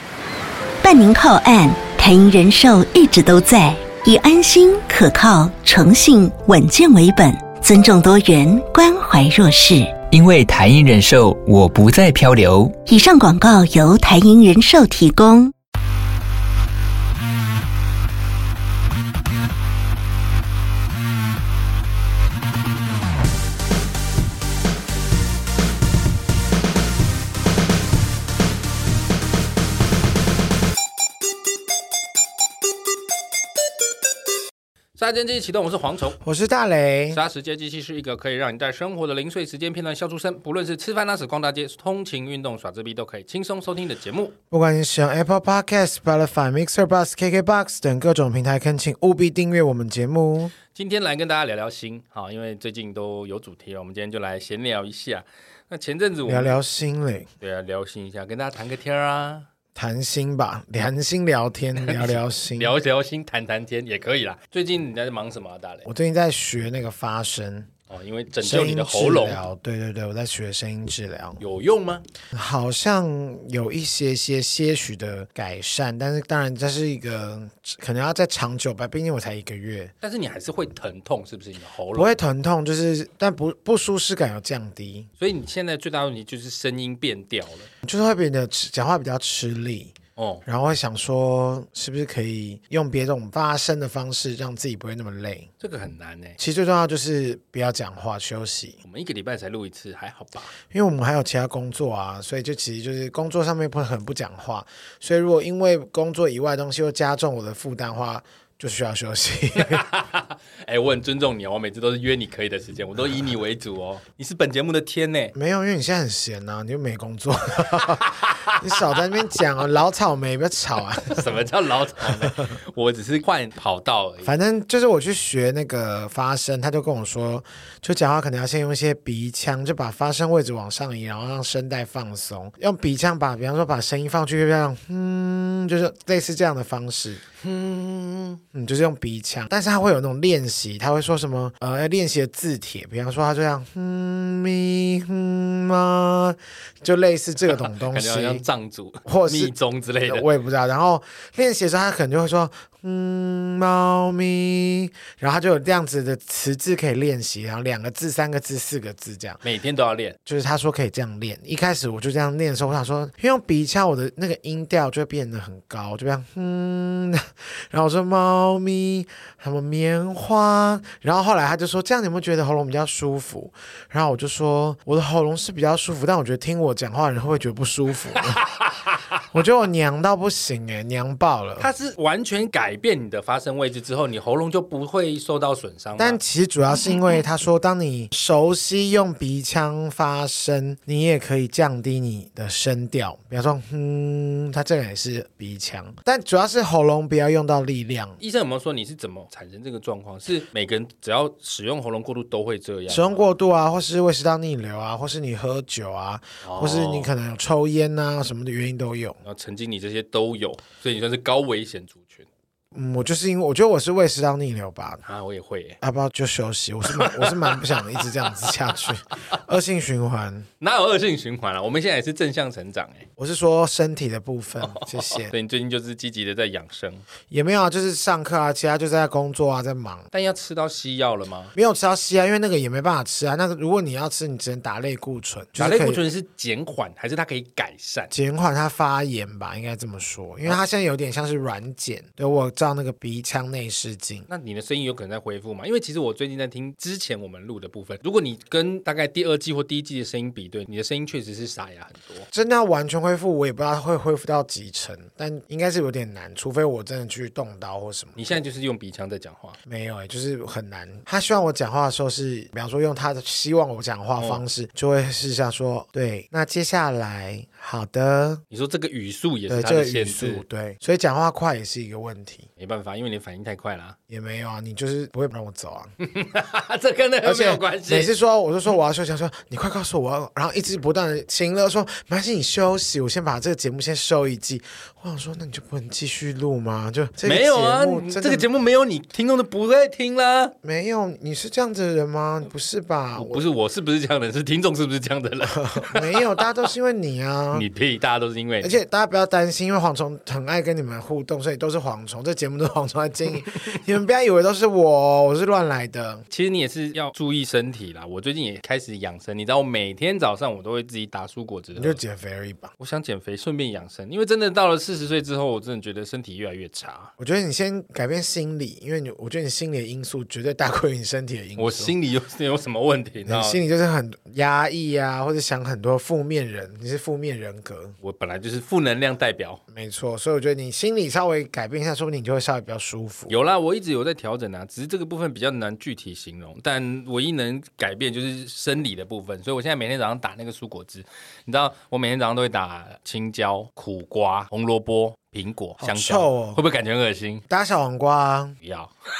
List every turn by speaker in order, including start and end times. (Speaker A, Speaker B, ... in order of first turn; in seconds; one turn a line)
Speaker A: 0.8-9.9
Speaker B: 10.1-12.8
Speaker A: 12.9-15.5
Speaker C: 35.0-36.2
Speaker D: 36.2-37.2
Speaker C: 37.1-44.4
Speaker D: 44.5-50.5
Speaker C: 50.7-56.6
Speaker D: 56.2-57.3
Speaker C: 57.4-59.5
Speaker D: 59.7-62.7
Speaker C: 61.8-65.8
Speaker D: 65.8-67.7
Speaker C: 67.9-69.4
Speaker D: 68.4-71.4
Speaker C: 71.4-72.0
Speaker D: 72.3-79.9
Speaker C: 80.0-82.2
Speaker D: 81.9-85.1
Speaker C: 85.2-87.7
Speaker D: 87.8-95.5
Speaker C: 90.2-90.4
Speaker C: 95.6-96.4
Speaker D: 96.4-98.8
Speaker C: 98.8-100.5
Speaker D: 100.7-109.8
Speaker C: 109.5-115.3
Speaker D: 115.3-121.3
Speaker C: 117.8-118.9
Speaker C: 121.0-124.3
Speaker D: 122.0-122.5
Speaker D: 124.2-137.3
Speaker C: 137.4-138.4
Speaker D: 138.5-148.4
Speaker C: 147.5-150.3
Speaker D: 149.0-149.5
Speaker D: 150.1-159.4
Speaker C: 159.4-160.2
Speaker D: 160.2-178.4
Speaker C: 178.3-179.2
Speaker D: 179.3-181.7
Speaker C: 181.6-186.2
Speaker D: 186.0-198.2
Speaker C: 198.2-203.3
Speaker D: 202.9-209.2
Speaker C: 206.4-207.1
Speaker C: 209.2-212.3
Speaker D: 212.7-215.0
Speaker C: 215.0-215.8
Speaker D: 215.8-220.5
Speaker C: 216.9-219.1
Speaker C: 220.6-223.1
Speaker D: 223.2-225.3
Speaker C: 224.6-227.0
Speaker D: 227.3-230.1
Speaker C: 230.1-231.5
Speaker D: 231.5-236.0
Speaker C: 235.6-238.1
Speaker D: 238.1-244.3
Speaker C: 244.3-252.3
Speaker D: 252.3-258.3
Speaker C: 258.1-259.6
Speaker D: 259.7-268.4
Speaker C: 264.2-264.4
Speaker C: 268.5-270.4
Speaker D: 269.5-272.5
Speaker C: 272.6-273.9
Speaker D: 274.1-275.9
Speaker C: 276.0-278.1
Speaker D: 277.2-288.5
Speaker C: 287.2-290.5
Speaker D: 290.6-293.5
Speaker C: 293.1-296.4
Speaker D: 295.4-297.7
Speaker C: 297.5-298.8
Speaker D: 298.6-306.2
Speaker C: 306.3-312.0
Speaker D: 311.8-312.7
Speaker C: 312.8-317.1
Speaker D: 317.2-321.9
Speaker C: 321.6-323.6
Speaker D: 323.2-327.9
Speaker C: 328.0-329.6
Speaker D: 329.7-333.3
Speaker C: 333.3-347.4
Speaker D: 345.8-346.6
Speaker D: 347.5-348.6
Speaker C: 348.6-348.9